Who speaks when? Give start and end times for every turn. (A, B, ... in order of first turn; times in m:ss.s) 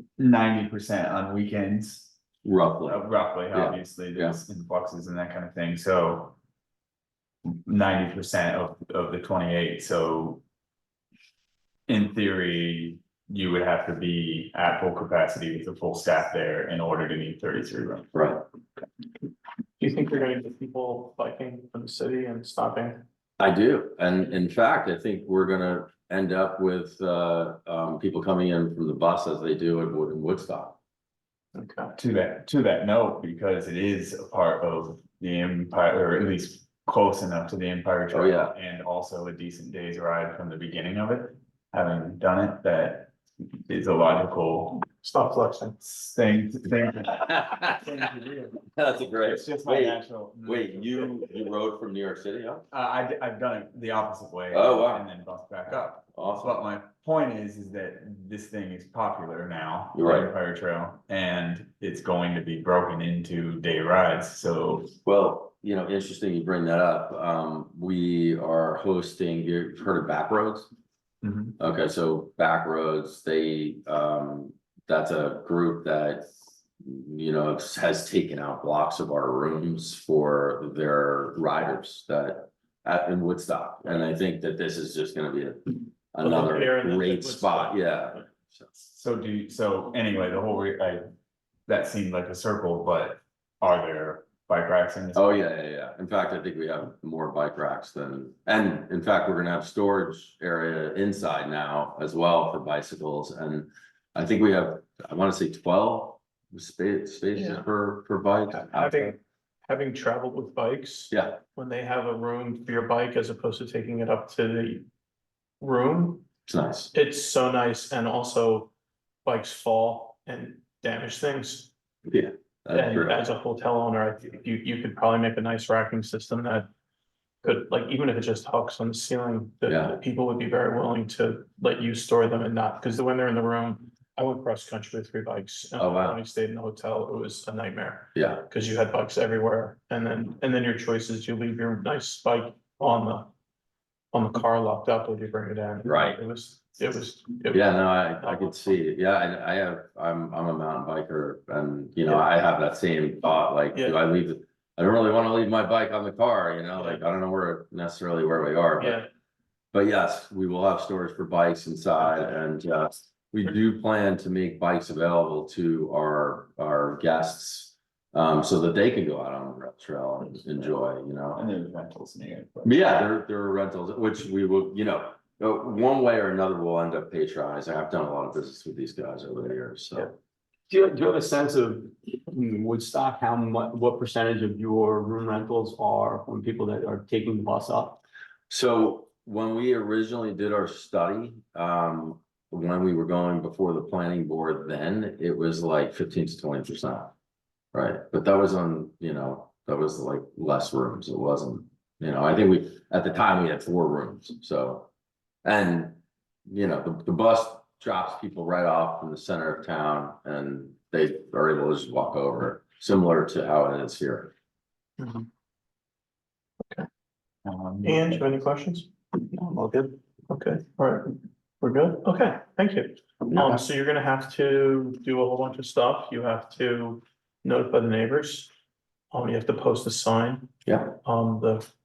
0:00.2-0:02.1 A
0:02.4-0:04.4 B
0:02.9-0:06.3 A
0:07.4-0:10.4 A
0:11.9-0:18.1 A
0:18.1-0:18.4 B
0:19.8-0:23.0 C
0:23.4-0:30.8 B
0:31.5-0:31.9 C
0:32.0-0:43.1 A
0:38.1-0:38.5 B
0:43.6-0:44.9 A
0:45.0-0:45.8 C
0:45.8-0:48.6 A
0:47.3-0:47.8 B
0:48.6-0:52.6 B
0:49.2-0:51.1 A
0:52.7-1:04.9 A
0:54.5-0:55.0 B
0:56.1-0:56.6 B
0:59.9-1:00.3 B
1:05.0-1:10.7 B
1:11.2-1:11.6 A
1:11.6-1:16.3 B
1:16.8-1:28.7 B
1:26.2-1:28.2 C
1:28.8-1:31.0 A
1:31.7-1:35.5 A
1:35.1-1:49.2 B
1:47.3-1:47.6 C
1:48.5-1:54.8 C
1:51.1-1:51.4 B
1:55.6-1:56.3 C
1:56.5-1:56.9 B
1:56.9-1:58.7 C
1:59.2-2:01.7 C
2:02.1-2:03.2 B
2:02.7-2:06.7 C
2:07.4-2:23.3 C
2:09.6-2:10.0 B
2:15.8-2:16.2 B
2:18.1-2:18.5 B
2:24.1-2:28.5 C
2:25.8-2:26.2 B
2:27.5-2:39.0 B
2:33.7-2:34.0 C
2:38.8-2:39.1 C
2:39.7-2:51.4 B
2:51.3-2:52.8 A
2:52.6-3:00.1 B
3:00.7-3:08.0 D
3:08.5-3:17.1 B
3:17.7-3:24.9 B
3:25.4-3:34.3 B
3:35.0-3:35.3 C
3:37.4-3:38.4 A
3:37.8-3:38.9 C
3:39.3-3:40.0 D
3:40.3-3:48.5 C
3:43.3-3:43.6 B
3:49.1-3:50.5 C
3:50.6-3:51.0 B
3:51.0-3:51.7 C